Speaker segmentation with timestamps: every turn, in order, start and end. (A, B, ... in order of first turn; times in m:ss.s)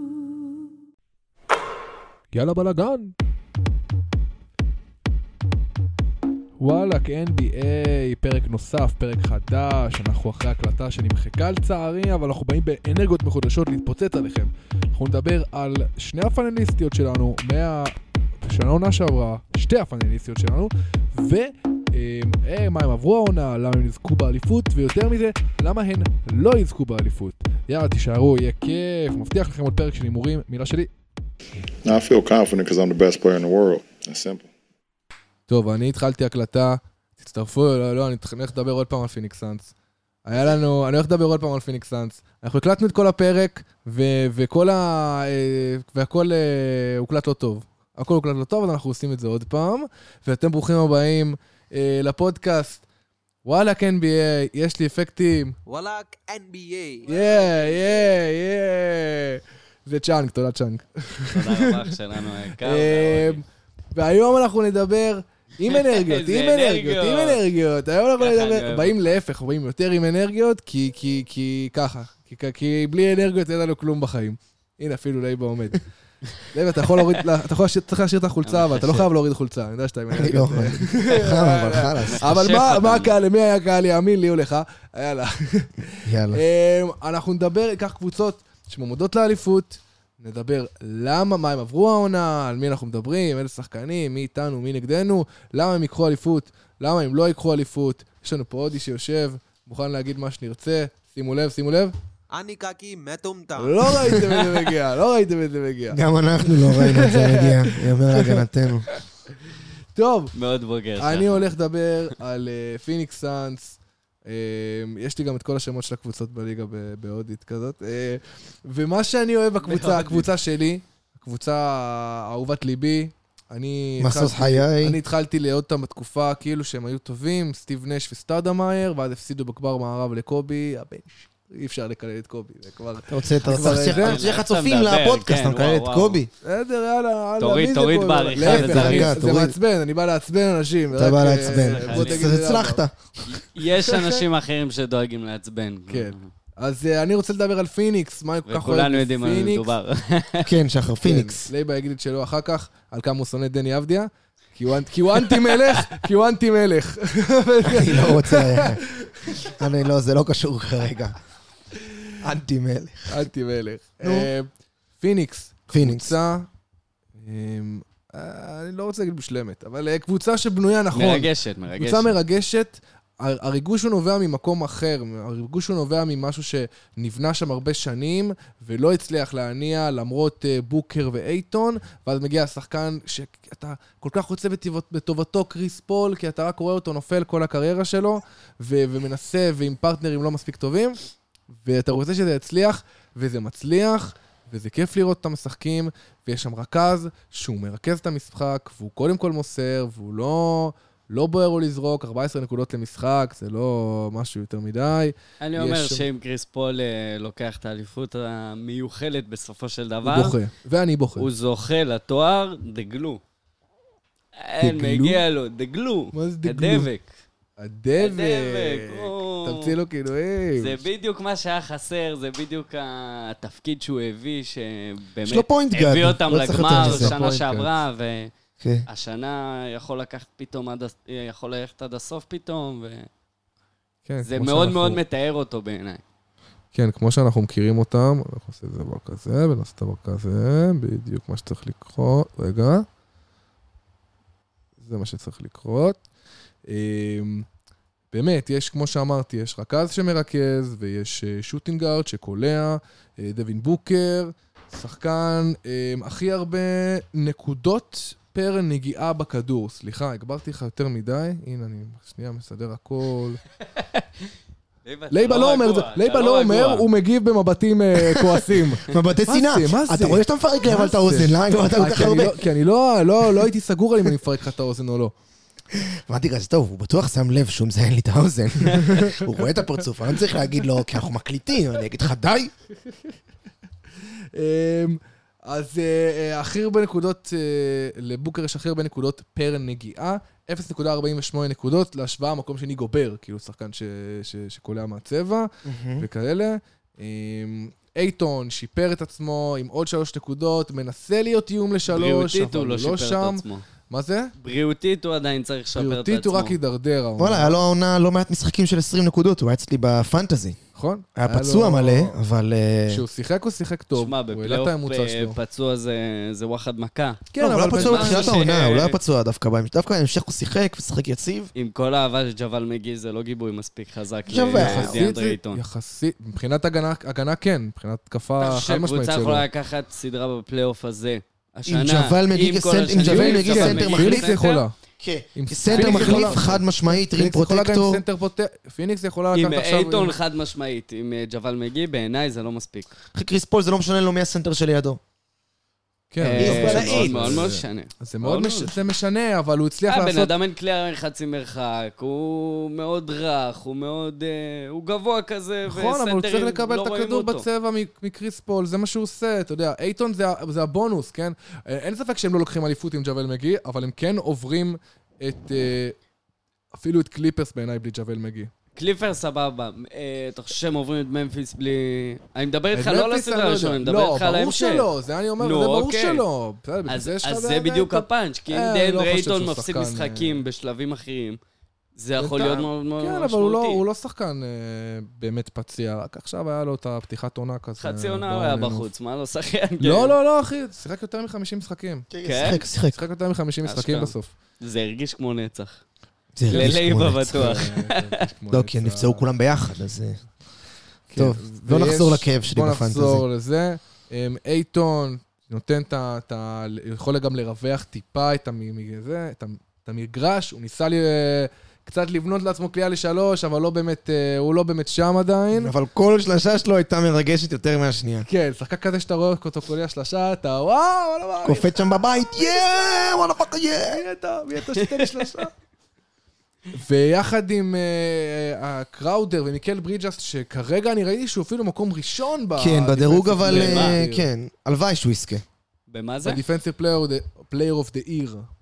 0:02.3-0:03.1 A
0:06.6-0:30.9 A
0:31.8-0:34.5 B
0:35.5-0:39.7 A
0:40.2-0:52.8 A
0:53.4-0:55.6 A
0:55.6-0:57.1 C
0:57.1-1:01.9 A
0:57.1-0:58.1 D
1:01.3-1:03.4 D
1:02.6-1:15.8 A
1:05.6-1:07.4 D
1:08.2-1:09.1 D
1:16.4-1:41.9 A
1:18.4-1:19.1 D
1:20.1-1:22.2 E
1:22.0-1:23.2 D
1:26.0-1:26.4 E
1:42.3-1:44.0 C
1:43.6-1:49.0 A
1:45.9-1:48.9 E
1:49.5-1:50.3 A
1:50.3-1:51.5 D
1:51.0-2:14.3 A
1:59.6-2:00.3 D
2:04.0-2:05.0 E
2:13.1-2:16.3 E
2:13.7-2:16.2 D
2:16.4-2:22.8 A
2:17.4-2:19.2 D
2:18.4-2:19.5 E
2:20.9-2:22.9 E
2:21.4-2:22.3 D
2:23.3-2:26.3 D
2:23.9-2:24.2 A
2:25.9-2:29.7 A
2:28.5-2:30.5 D
2:30.4-2:31.5 E
2:31.0-2:39.5 A
2:35.3-2:35.8 D
2:37.6-2:38.8 E
2:39.5-2:41.2 E
2:42.2-2:43.2 E
2:43.1-2:46.5 A
2:44.0-2:44.3 E
2:45.7-2:46.1 E
2:47.2-3:26.0 A
2:50.9-2:52.2 D
3:25.4-3:30.4 D
3:30.0-3:31.3 A
3:31.2-3:33.2 D
3:34.4-3:37.1 D
3:34.6-3:35.2 A
3:36.1-3:36.9 A
3:37.6-3:40.8 A
3:38.0-3:39.7 D
3:40.6-3:48.3 D
3:45.2-3:47.2 E
3:46.6-3:47.7 A
3:48.6-3:48.8 E
3:48.9-3:53.1 D
3:54.0-3:55.0 A
3:54.2-3:56.0 D
3:56.7-4:02.9 A
4:04.8-4:06.0 A
4:06.7-4:07.4 A
4:08.1-4:23.4 A
4:23.8-4:24.0 D
4:24.8-4:26.9 D
4:25.1-4:35.1 A
4:28.1-4:32.4 E
4:35.7-4:42.5 E
4:38.8-4:39.3 A
4:44.3-5:04.3 A
4:55.6-4:56.0 E
5:01.9-5:03.6 D
5:04.4-5:06.6 D
5:05.7-5:07.6 A
5:07.2-5:10.6 E
5:10.7-5:12.2 A
5:11.2-5:13.0 E
5:12.9-5:15.4 A
5:13.9-5:19.0 D
5:17.3-5:18.4 A
5:17.4-5:21.5 E
5:21.5-5:25.6 D
5:24.3-5:25.0 E
5:24.5-5:29.4 A
5:28.4-5:34.6 D
5:31.6-5:34.3 E
5:32.9-5:34.7 A
5:35.0-5:38.0 E
5:35.3-5:40.1 A
5:35.7-5:36.5 D
5:39.3-5:42.9 D
5:43.1-5:45.0 E
5:46.1-5:50.3 A
5:46.2-5:48.7 D
5:46.4-5:47.4 E
5:49.9-5:57.4 D
5:55.6-6:06.0 A
6:06.7-6:08.5 A
6:08.8-6:14.9 D
6:12.7-6:20.4 A
6:15.4-6:16.2 D
6:16.9-6:21.4 D
6:22.0-6:23.8 D
6:22.2-6:28.9 A
6:22.4-6:22.7 E
6:27.8-6:30.1 D
6:29.8-6:32.1 A
6:32.1-6:33.0 E
6:32.2-6:32.6 D
6:32.8-6:34.3 A
6:33.6-6:35.8 D
6:36.4-6:37.6 E
6:36.5-6:38.2 D
6:36.5-6:36.8 A
6:37.3-6:39.2 A
6:38.5-6:40.2 E
6:41.1-6:55.7 A
6:41.1-6:43.2 E
6:55.5-6:58.3 E
6:58.2-7:03.1 A
7:01.4-7:04.0 E
7:03.8-7:05.5 A
7:04.8-7:05.2 D
7:06.7-7:14.3 A
7:12.6-7:15.4 E
7:13.5-7:14.0 D
7:15.9-7:16.4 D
7:16.2-7:18.5 A